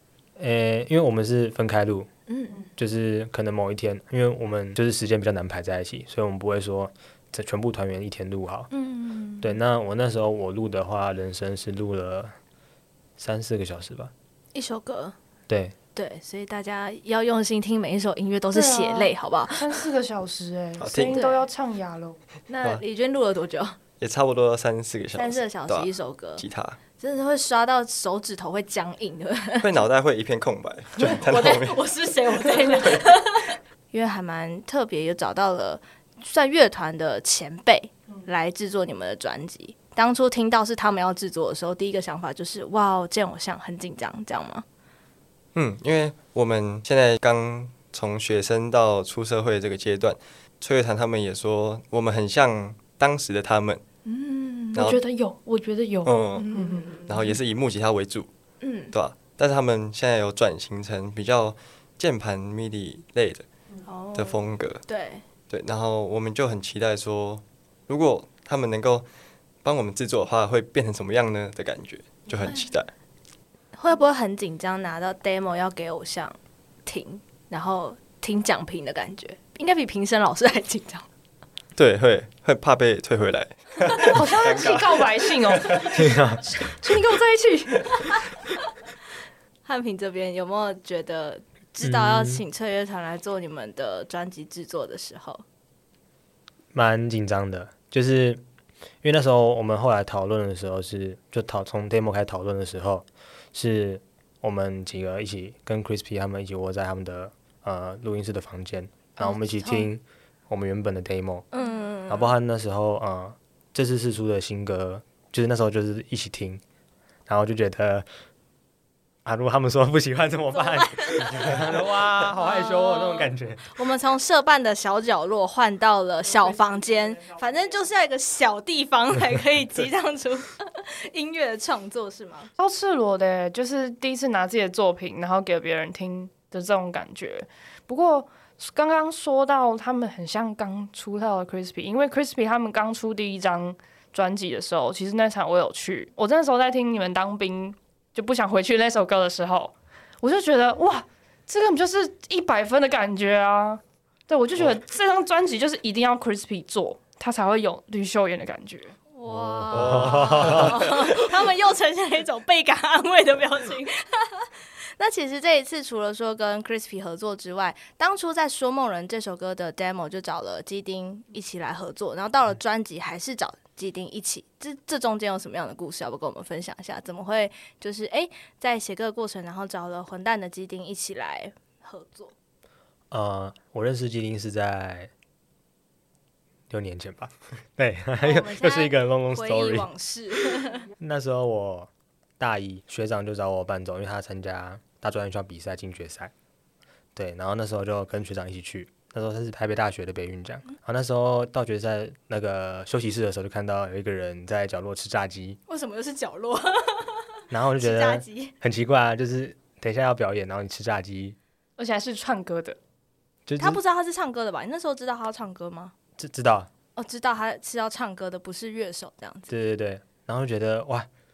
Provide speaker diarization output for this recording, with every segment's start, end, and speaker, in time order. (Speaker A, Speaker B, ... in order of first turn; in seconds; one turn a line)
Speaker A: 0.4-2.1
Speaker B: 2.3-2.7
Speaker A: 2.8-8.7
Speaker B: 8.7-9.5
Speaker A: 9.4-12.3
Speaker A: 13.2-14.1
Speaker B: 14.5-15.2
Speaker A: 15.5-15.8
Speaker B: 15.9-19.8
Speaker C: 18.5-22.2
Speaker D: 20.8-21.2
Speaker B: 21.1-21.4
Speaker B: 22.5-23.8
Speaker D: 24.0-26.8
Speaker B: 25.1-26.4
Speaker B: 27.0-29.7
Speaker D: 29.6-31.8
Speaker B: 31.0-44.6
Speaker D: 32.6-33.1
Speaker D: 45.5-53.8
Speaker B: 54.1-54.9
Speaker D: 54.7-55.0
Speaker C: 54.7-57.0
Speaker D: 56.0-56.5
Speaker B: 56.4-57.3
Speaker D: 57.0-58.3
Speaker B: 58.6-58.9
Speaker D: 58.9-63.5
Speaker B: 63.9-65.2
Speaker D: 64.2-64.8
Speaker D: 65.5-69.0
Speaker D: 69.6-72.9
Speaker B: 73.8-81.1
Speaker D: 81.8-85.6
Speaker C: 84.0-86.1
Speaker A: 85.8-86.4
Speaker B: 86.8-88.2
Speaker C: 86.8-87.3
Speaker B: 89.7-95.4
Speaker A: 91.8-92.4
Speaker A: 96.7-98.4
Speaker A: 99.0-111.5
Speaker B: 109.2-109.9
Speaker B: 111.5-112.3
Speaker A: 112.1-116.6
Speaker A: 117.3-118.1
Speaker A: 119.2-123.7
Speaker B: 120.5-132.5
Speaker C: 132.6-158.9
Speaker B: 159.1-182.3
Speaker D: 159.6-160.7
Speaker A: 159.7-160.8
Speaker A: 183.1-185.1
Speaker A: 186.7-189.9
Speaker B: 188.2-190.9
Speaker A: 191.0-191.9
Speaker A: 192.4-196.3
Speaker A: 197.2-205.6
Speaker B: 205.7-208.5
Speaker A: 207.5-211.4
Speaker C: 211.8-212.8
Speaker A: 213.5-213.8
Speaker B: 213.6-215.9
Speaker A: 216.2-216.7
Speaker B: 217.0-219.5
Speaker A: 219.5-221.1